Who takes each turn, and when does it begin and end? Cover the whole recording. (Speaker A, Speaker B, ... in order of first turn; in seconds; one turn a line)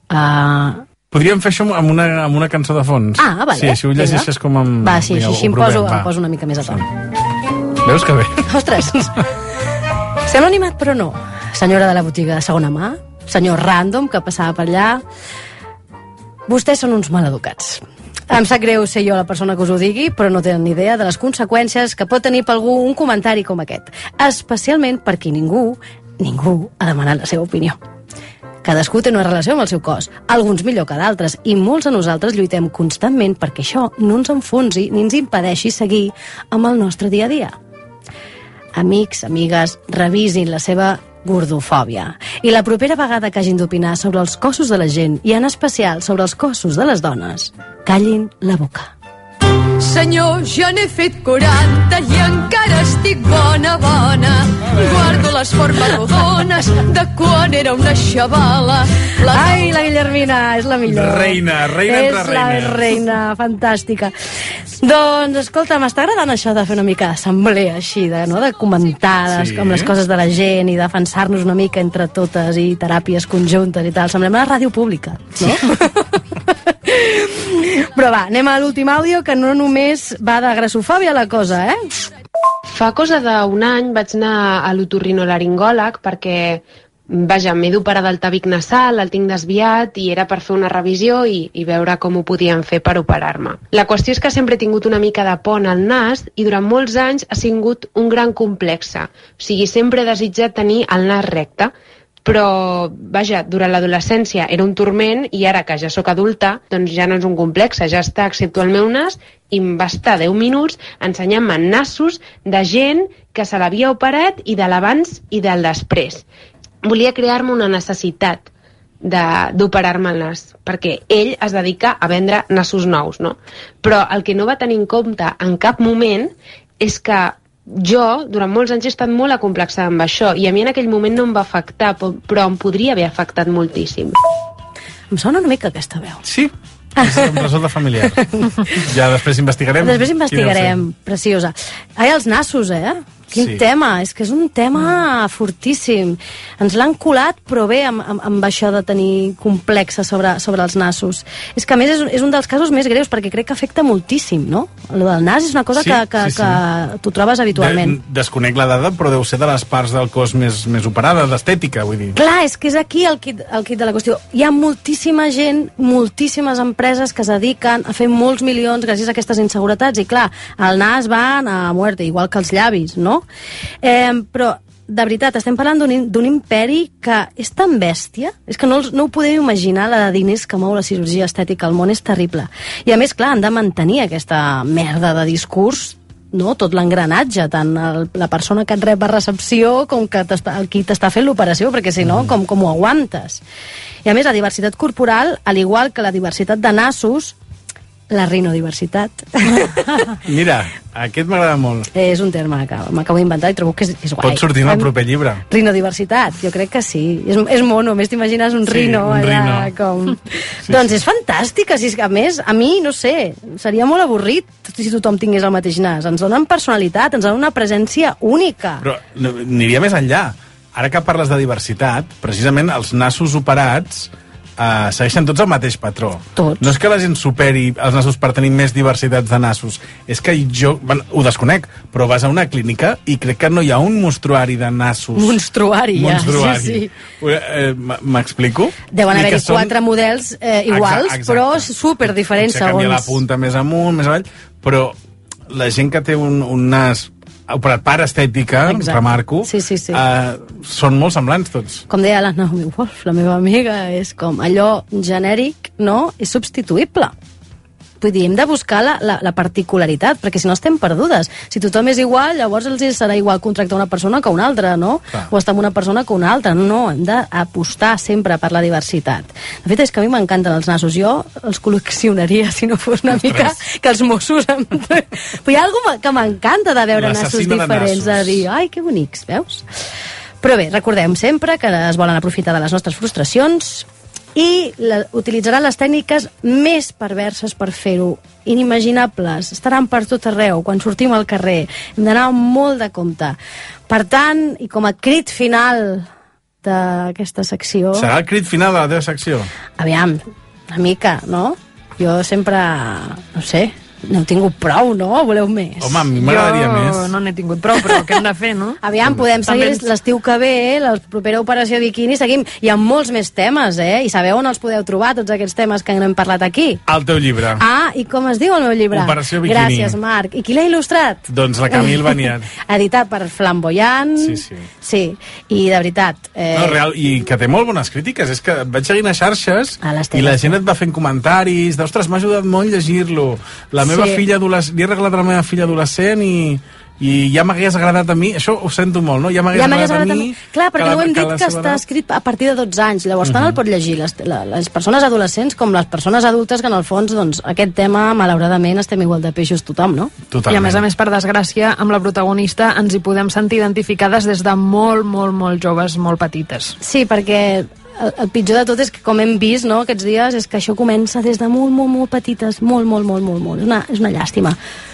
Speaker A: 0.1-0.8
Speaker B: 1.1-6.9
Speaker A: 3.2-4.3
Speaker A: 4.8-6.8
Speaker B: 7.8-8.5
Speaker A: 8.5-9.2
Speaker A: 10.3-15.0
Speaker A: 16.5-27.8
Speaker A: 28.6-37.6
Speaker A: 38.8-48.9
Speaker C: 49.8-59.8
Speaker B: 54.7-55.0
Speaker A: 59.3-64.1
Speaker B: 60.8-63.0
Speaker A: 64.8-75.9
Speaker B: 69.2-69.9
Speaker A: 76.9-81.9
Speaker D: 82.7-101.7
Speaker D: 102.2-116.2
Speaker D: 116.8-118.5
Speaker D: 119.0-134.2
Speaker A: 135.1-136.2
Speaker B: 136.2-138.2
Speaker A: 137.0-137.4
Speaker A: 138.1-138.4
Speaker B: 138.8-140.9
Speaker A: 139.8-158.0
Speaker B: 143.3-143.7
Speaker B: 155.8-156.6
Speaker B: 157.5-162.2
Speaker A: 162.1-173.2
Speaker A: 173.8-193.4
Speaker B: 192.0-192.4
Speaker A: 194.1-197.3
Speaker A: 198.1-200.2
Speaker B: 200.3-201.9
Speaker A: 201.9-204.9
Speaker B: 204.2-205.4
Speaker A: 205.5-218.8
Speaker B: 208.7-209.7
Speaker B: 210.7-211.0
Speaker B: 218.8-235.4
Speaker A: 226.4-226.7
Speaker A: 235.2-236.9
Speaker B: 235.9-239.9
Speaker A: 238.9-243.2
Speaker B: 240.7-245.0
Speaker B: 245.5-251.8
Speaker A: 248.7-250.0
Speaker A: 251.9-257.1
Speaker A: 258.0-279.6
Speaker B: 273.1-273.6
Speaker B: 276.9-278.5
Speaker A: 280.4-293.4
Speaker A: 293.9-296.1
Speaker A: 296.6-298.1
Speaker B: 297.9-299.5
Speaker A: 299.8-306.1
Speaker B: 305.8-307.1
Speaker E: 306.2-308.8
Speaker A: 308.8-316.8
Speaker B: 309.0-309.4
Speaker E: 309.5-309.8
Speaker B: 316.9-317.6
Speaker A: 317.6-326.8
Speaker B: 318.9-320.0
Speaker B: 321.3-322.5
Speaker B: 324.2-324.7
Speaker B: 326.5-341.9
Speaker A: 329.8-330.6
Speaker A: 333.8-334.2
Speaker A: 339.5-350.1
Speaker B: 343.2-343.6
Speaker B: 350.3-350.9
Speaker E: 350.5-356.8
Speaker A: 356.8-364.6